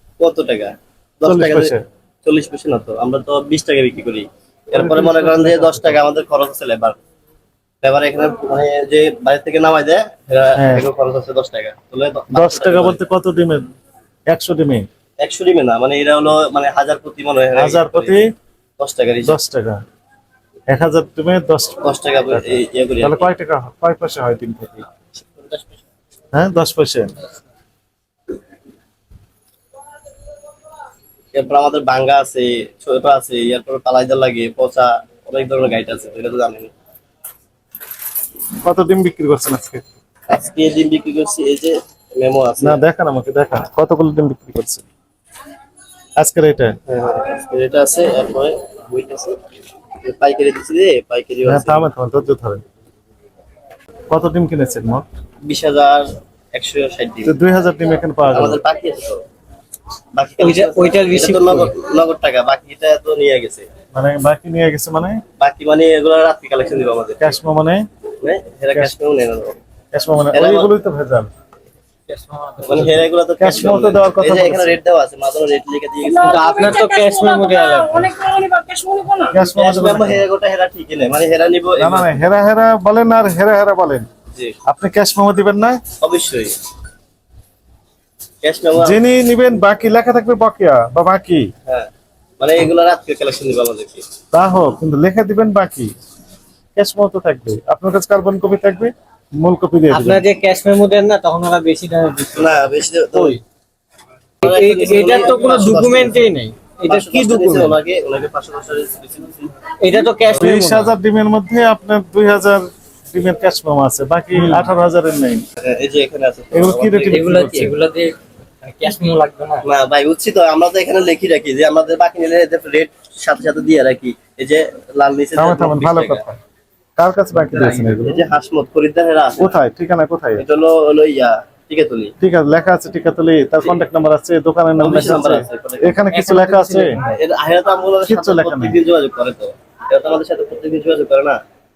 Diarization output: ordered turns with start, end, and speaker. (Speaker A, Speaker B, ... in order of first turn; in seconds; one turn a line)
Speaker A: 0.2-7.0
Speaker B: 1.2-1.8
Speaker B: 4.7-6.0
Speaker A: 7.8-13.0
Speaker B: 10.5-10.8
Speaker B: 12.3-13.7
Speaker B: 14.3-14.9
Speaker A: 15.2-18.2
Speaker B: 17.5-18.3
Speaker A: 18.8-19.4
Speaker B: 19.2-19.8
Speaker B: 20.7-24.8
Speaker A: 21.8-23.3
Speaker A: 25.1-25.8
Speaker B: 26.3-27.1
Speaker A: 31.3-36.7
Speaker B: 38.6-39.9
Speaker A: 40.3-42.8
Speaker B: 42.6-44.8
Speaker B: 46.2-46.8
Speaker A: 46.9-49.4
Speaker A: 50.0-51.9
Speaker B: 51.4-52.6
Speaker B: 54.1-55.0
Speaker A: 55.4-57.4
Speaker B: 57.2-58.6
Speaker A: 58.3-59.2
Speaker A: 60.1-63.7
Speaker C: 60.4-61.7
Speaker B: 63.9-65.2
Speaker A: 65.4-67.3
Speaker B: 67.2-67.9
Speaker A: 68.2-69.6
Speaker B: 69.9-71.3
Speaker A: 70.3-70.7
Speaker C: 72.1-73.0
Speaker A: 72.6-76.8
Speaker B: 73.4-74.8
Speaker D: 76.0-79.3
Speaker C: 76.2-78.0
Speaker B: 79.3-80.2
Speaker A: 79.4-82.1
Speaker B: 81.8-84.1
Speaker B: 84.7-85.8
Speaker A: 86.0-86.5
Speaker A: 88.4-89.0
Speaker B: 88.8-91.5
Speaker A: 91.7-94.0
Speaker B: 94.3-95.9
Speaker B: 96.8-100.2
Speaker C: 99.9-102.5
Speaker A: 102.3-103.4
Speaker C: 103.1-103.4
Speaker C: 104.4-107.8
Speaker A: 104.4-106.2
Speaker A: 106.9-109.5
Speaker C: 109.8-110.9
Speaker B: 110.3-115.4
Speaker A: 115.6-117.2
Speaker B: 116.5-117.8
Speaker C: 117.0-119.7
Speaker A: 119.6-126.2
Speaker B: 125.3-126.4
Speaker B: 127.0-128.2
Speaker A: 127.6-129.5
Speaker B: 129.4-130.4
Speaker A: 130.4-132.1
Speaker B: 132.2-136.9
Speaker A: 134.8-136.0
Speaker C: 136.1-137.1
Speaker A: 137.1-141.4
Speaker B: 138.1-138.8